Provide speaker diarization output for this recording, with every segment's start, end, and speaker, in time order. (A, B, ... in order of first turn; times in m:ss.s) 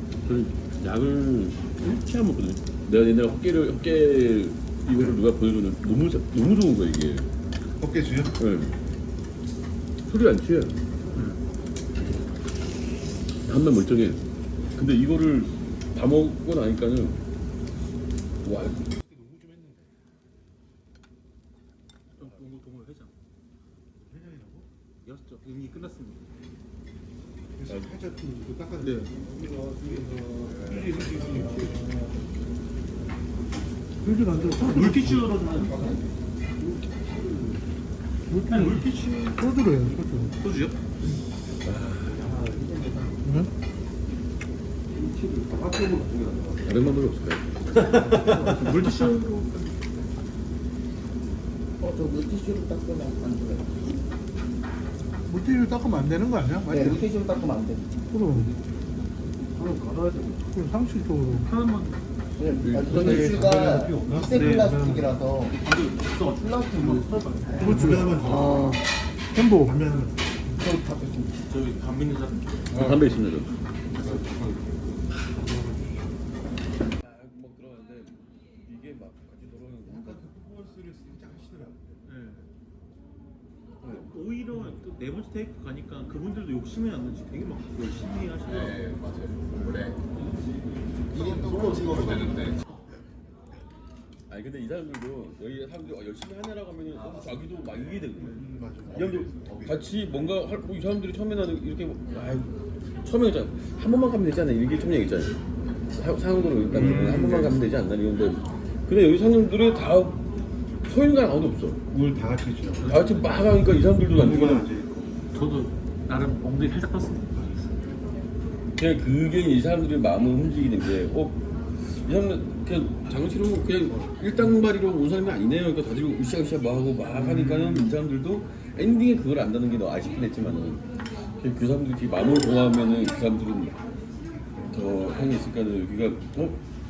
0:00.2-0:07.3 A
0:07.8-0:08.4 B
0:08.4-0:08.8 A
0:10.1-0:10.8 A
0:13.4-0:14.2 A
0:14.8-0:17.2 A
0:18.4-0:18.8 A
0:18.8-0:19.9 B
0:22.2-0:23.1 C
0:22.2-0:22.4 B
0:24.1-0:24.7 B
0:25.0-0:26.3 C
0:27.5-0:31.8 B
0:28.8-0:29.1 C
0:31.3-0:32.0 D
0:34.0-0:35.3 E
0:34.4-0:36.0 C
0:35.4-0:36.0 D
0:36.8-0:37.6 B
0:38.3-0:40.4 E
0:38.5-0:39.4 C
0:40.4-0:40.8 C
0:41.6-0:42.2 A
0:42.0-0:43.2 D
0:43.2-0:43.5 E
0:45.0-0:46.6 B
0:46.6-0:47.5 A
0:47.8-0:49.9 C
0:47.9-0:48.8 B
0:51.8-0:53.8 D
0:55.3-0:57.0 E
0:56.7-0:58.0 D
0:58.1-0:58.5 E
0:59.6-1:00.3 C
1:00.5-1:01.5 E
1:01.3-1:02.0 C
1:02.4-1:05.6 D
1:02.6-1:03.3 A
1:02.8-1:05.1 B
1:04.3-1:04.7 C
1:05.5-1:08.6 C
1:06.3-1:07.1 D
1:07.5-1:08.7 B
1:07.8-1:08.8 E
1:09.4-1:09.7 E
1:09.4-1:10.3 B
1:10.6-1:11.3 D
1:11.4-1:13.0 C
1:12.7-1:13.5 A
1:13.9-1:14.8 C
1:15.3-1:16.2 B
1:17.0-1:20.3 A
1:19.8-1:21.9 B
1:22.1-1:22.5 C
1:23.8-1:24.8 B
1:23.8-1:29.9 C
1:31.2-1:32.6 C
1:31.2-1:31.7 B
1:31.4-1:32.0 D
1:34.3-1:45.4 A
1:38.2-1:39.7 B
1:45.9-1:50.2 A
1:46.7-1:47.6 C
1:46.7-1:47.3 B
1:50.8-1:51.8 A
1:51.9-1:52.9 B
1:52.8-1:53.6 C
1:52.9-1:54.7 A
1:54.0-1:55.1 B
1:55.3-1:57.7 C
1:58.8-2:13.8 A
2:03.9-2:04.4 B
2:07.2-2:07.7 C
2:14.7-2:16.6 A